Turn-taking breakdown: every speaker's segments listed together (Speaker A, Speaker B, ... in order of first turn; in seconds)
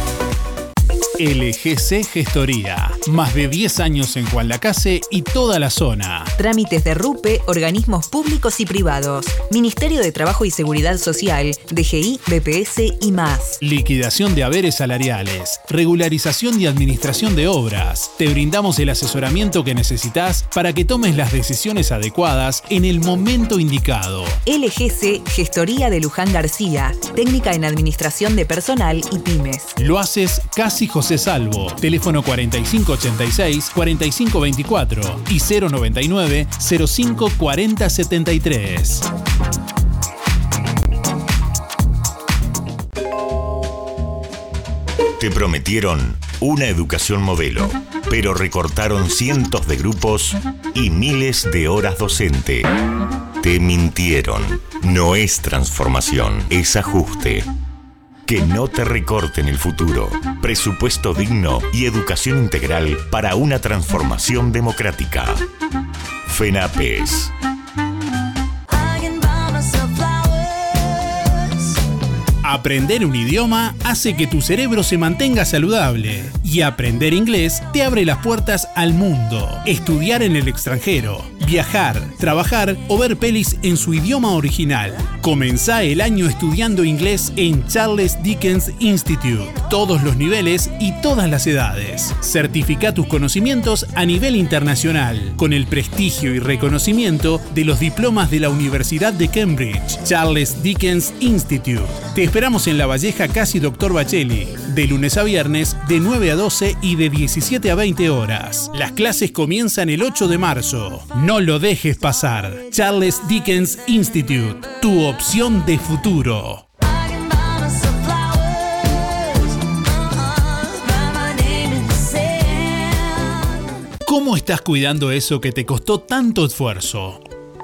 Speaker A: 1.2-6.3, 13.6-24.4, 29.8-39.0, 72.4-116.6, 124.0-127.2
Speaker B: 6.4-13.6, 24.4-29.7
Speaker C: 45.2-52.7, 53.4-57.5, 58.3-65.4, 66.3-67.3